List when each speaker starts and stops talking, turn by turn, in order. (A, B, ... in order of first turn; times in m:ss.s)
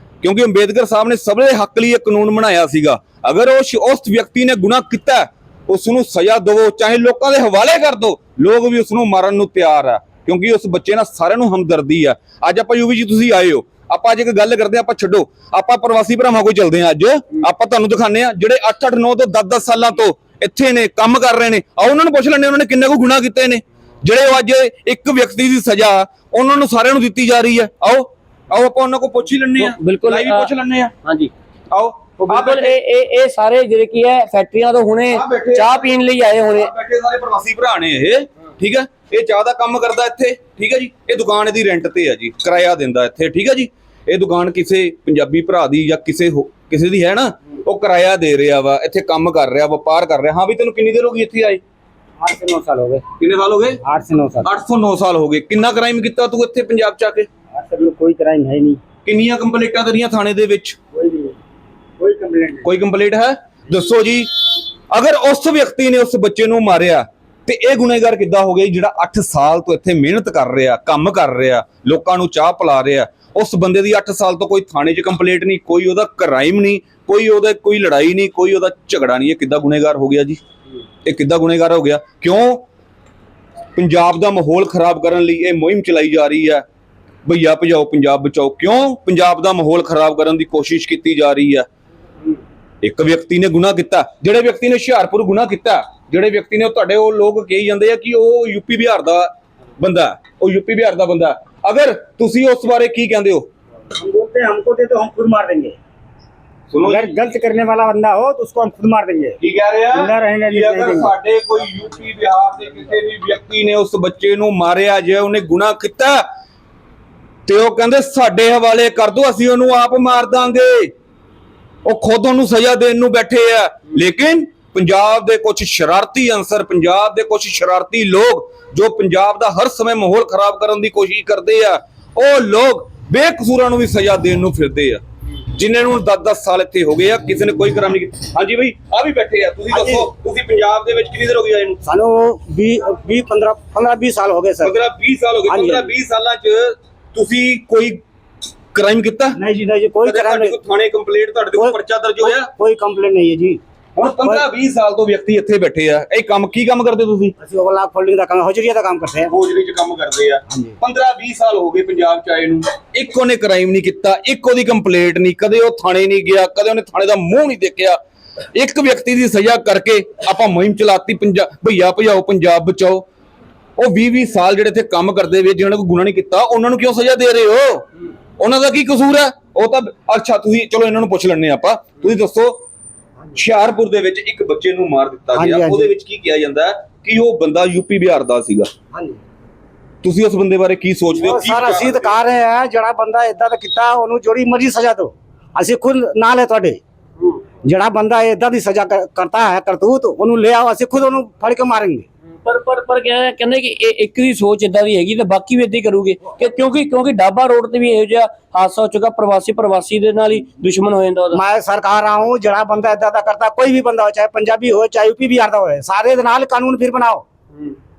0:00.2-0:30.9 A
0:29.6-0:30.5 B
0:31.0-0:31.3 B
0:31.7-0:32.8 A
0:32.2-0:36.7 B
0:35.1-0:51.6 A
0:52.2-0:53.0 C
0:53.2-0:53.8 A
0:53.8-0:54.5 C
0:54.4-0:57.3 A
0:57.5-0:58.8 C
0:59.0-1:00.8 A
1:00.9-1:01.3 C
1:02.0-1:02.7 C
1:02.6-1:20.4 A
1:21.0-1:22.6 A
1:23.8-1:26.6 A
1:27.2-1:31.7 A
1:32.8-1:43.5 A
1:44.0-1:45.8 C
1:46.7-1:47.3 A
1:46.8-1:49.4 C
1:49.4-1:56.2 A
1:49.9-1:51.1 C
1:57.4-2:00.9 A
2:01.8-2:15.0 A
2:15.5-2:21.8 A
2:19.7-2:20.0 C
2:21.8-2:24.7 C
2:24.6-2:28.0 A
2:25.5-2:25.9 C
2:28.7-2:29.4 A
2:29.4-2:30.6 C
2:30.0-2:32.5 A
2:31.5-2:34.4 C
2:34.0-2:37.3 A
2:37.4-2:39.3 C
2:39.3-2:48.0 A
2:40.5-2:40.8 C
2:48.5-2:53.0 A
2:53.8-2:57.8 A
2:58.4-3:02.6 A
3:03.3-3:08.7 A
3:05.3-3:05.9 C
3:08.9-3:09.2 C
3:10.0-3:12.2 A
3:11.2-3:16.8 C
3:17.6-3:22.0 C
3:22.4-3:31.4 B
3:31.3-3:37.2 C